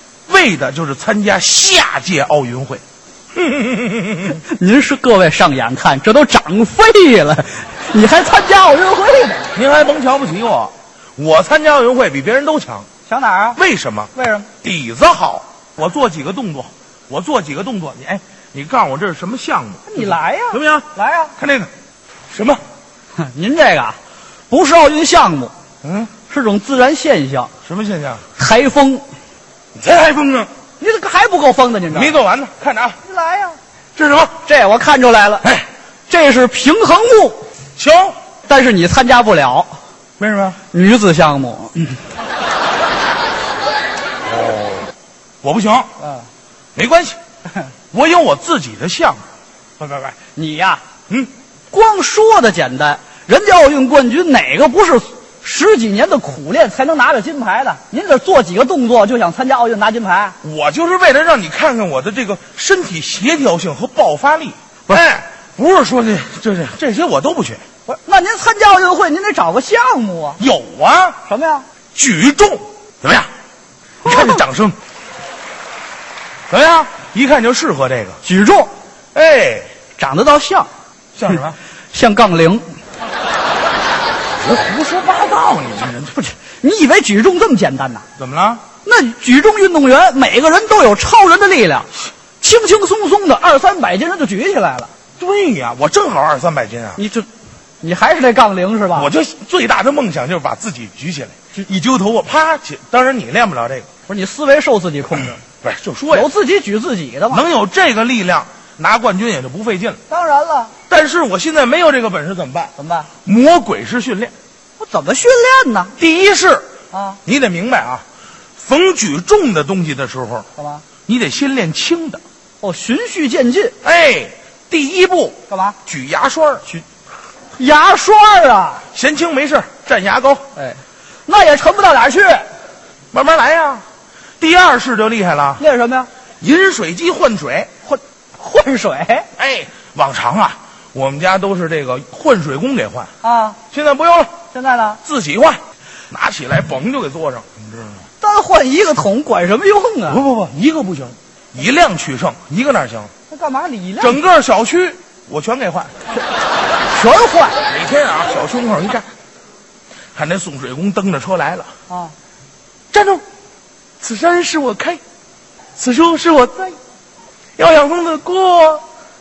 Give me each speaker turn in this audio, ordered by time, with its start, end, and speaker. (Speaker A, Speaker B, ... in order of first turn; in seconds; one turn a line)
Speaker A: 0.3-2.8
Speaker A: 3.4-4.4
Speaker B: 4.3-9.5
Speaker A: 9.6-12.9
Speaker B: 13.1-13.6
Speaker A: 13.6-21.7
Speaker B: 14.1-14.5
Speaker B: 19.9-21.4
Speaker A: 22.3-22.6
Speaker B: 23.2-24.0
Speaker B: 24.5-25.5
Speaker A: 25.8-26.1
Speaker B: 26.3-27.5
Speaker A: 27.6-28.3
Speaker B: 28.4-29.1
Speaker A: 29.8-30.5
Speaker B: 30.8-32.1
Speaker A: 31.9-33.0
Speaker B: 33.0-33.6
Speaker A: 34.0-34.4
Speaker B: 34.5-35.5
Speaker B: 36.1-37.5
Speaker A: 37.8-38.2
Speaker B: 38.5-39.8
Speaker A: 40.2-40.6
Speaker B: 40.7-42.0
Speaker A: 44.3-44.9
Speaker A: 45.4-45.9
Speaker B: 46.0-46.3
Speaker A: 46.8-47.2
Speaker A: 47.9-49.2
Speaker B: 49.8-50.8
Speaker B: 51.7-60.4
Speaker A: 60.4-67.6
Speaker B: 67.9-70.4
Speaker A: 70.4-71.2
Speaker B: 71.3-71.7
Speaker A: 72.0-73.3
Speaker A: 74.0-74.8
Speaker A: 76.5-78.2
Speaker B: 78.2-78.7
Speaker A: 79.1-79.7
Speaker B: 80.0-80.7
Speaker A: 81.2-81.6
Speaker B: 81.9-82.7
Speaker A: 84.4-86.3
Speaker B: 86.3-88.0
Speaker A: 88.2-88.6
Speaker B: 88.8-91.9
Speaker B: 92.4-94.9
Speaker A: 95.2-97.0
Speaker B: 97.0-97.3
Speaker B: 97.8-99.1
Speaker A: 98.9-103.9
Speaker B: 104.1-105.4
Speaker A: 105.4-106.3
Speaker B: 106.1-107.4
Speaker A: 107.3-110.0
Speaker B: 110.1-110.8
Speaker A: 110.9-112.7
Speaker B: 112.8-113.1
Speaker A: 113.2-114.3
Speaker B: 114.8-115.9
Speaker A: 116.0-116.7
Speaker B: 116.9-117.2
Speaker A: 117.3-118.0
Speaker A: 118.6-120.5
Speaker B: 120.6-120.8
Speaker A: 121.1-122.2
Speaker B: 122.6-123.8
Speaker A: 123.8-126.7
Speaker B: 125.5-125.8
Speaker B: 127.6-128.8
Speaker A: 128.9-130.4
Speaker B: 130.6-132.5
Speaker A: 133.1-133.8
Speaker A: 134.4-135.6
Speaker B: 135.6-136.1
Speaker A: 136.4-137.7
Speaker B: 137.8-139.3
Speaker A: 139.4-143.1
Speaker B: 143.2-143.6
Speaker A: 143.7-144.3
Speaker B: 144.5-145.0
Speaker A: 145.0-148.0
Speaker B: 148.2-150.2
Speaker A: 150.1-153.1
Speaker B: 153.3-154.2
Speaker A: 154.0-155.9
Speaker B: 156.8-157.6
Speaker A: 157.7-159.1
Speaker A: 160.2-161.7
Speaker B: 161.9-162.2
Speaker A: 162.9-163.2
Speaker A: 164.0-165.0
Speaker A: 165.8-166.8
Speaker A: 167.6-168.8